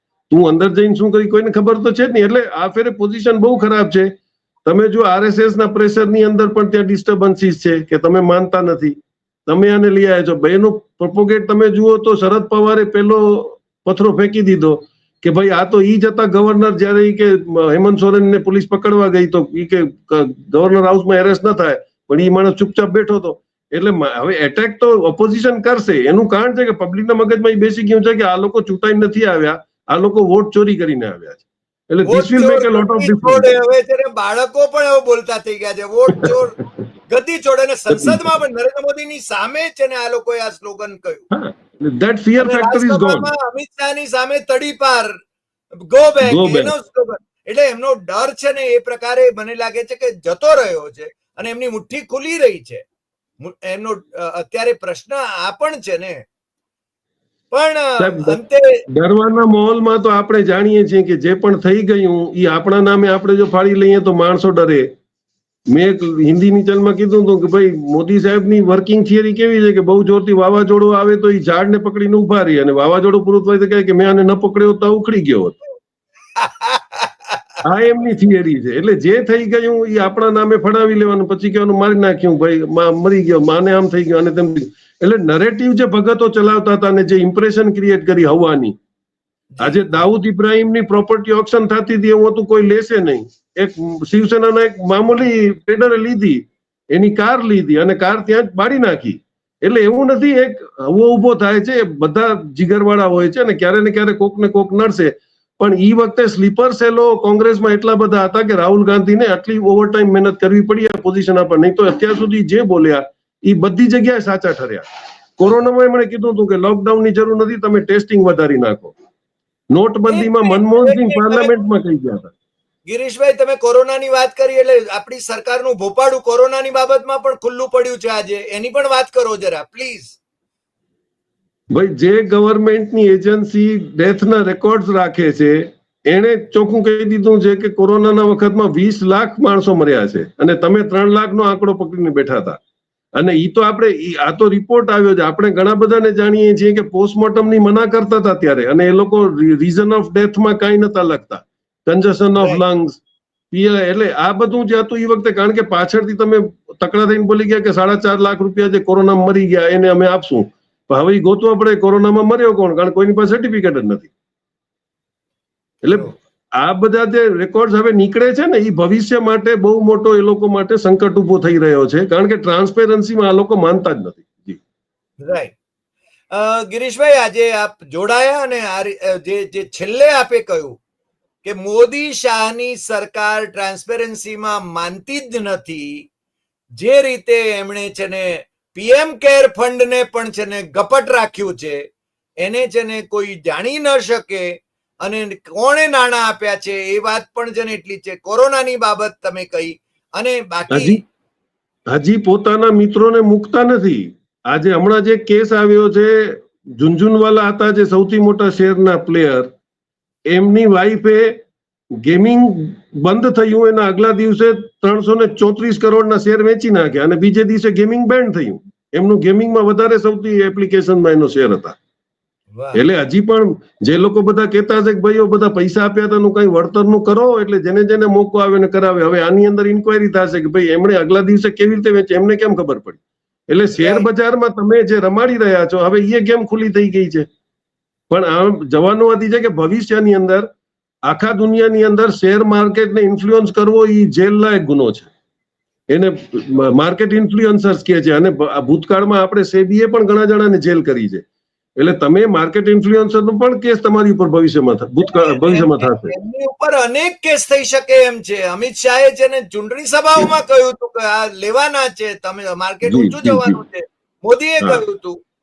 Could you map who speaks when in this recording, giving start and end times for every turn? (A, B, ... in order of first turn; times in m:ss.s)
0:00.3-0:04.1 A
0:04.6-0:09.0 A
0:09.5-0:33.5 A
0:32.0-0:36.6 B
0:37.1-0:41.3 B
0:37.9-0:38.4 A
0:41.3-0:43.3 A
0:42.4-0:45.1 B
0:45.9-0:52.8 B
0:46.2-0:46.7 A
0:53.4-0:56.2 B
0:57.5-0:58.8 B
0:58.0-0:58.4 A
0:58.9-1:04.9 A
1:05.7-1:15.6 A
1:16.4-1:17.4 B
1:17.6-1:28.7 A
1:29.6-1:30.0 B
1:29.6-1:54.8 A
1:55.4-1:58.9 A
1:59.7-2:02.3 A
2:00.1-2:01.6 B
2:02.9-2:10.2 B
2:11.7-2:22.6 A
2:23.2-2:33.0 A
2:33.5-2:44.1 A
2:45.8-2:54.6 A
2:55.2-2:55.5 B
2:56.3-3:00.8 B
3:01.4-3:06.0 B
3:06.8-3:11.8 B
3:12.4-3:14.5 B
3:15.0-3:21.0 B
3:20.7-3:21.0 A
3:21.9-3:29.5 A
3:30.3-3:31.4 A
3:32.0-3:41.8 A
3:42.5-3:42.8 B
3:42.7-3:57.3 A
3:53.7-3:54.1 B
3:58.1-4:00.5 A
4:01.1-4:05.1 A
4:05.9-4:11.2 A
4:11.8-4:16.1 A
4:15.0-4:25.2 B
4:22.8-4:23.6 A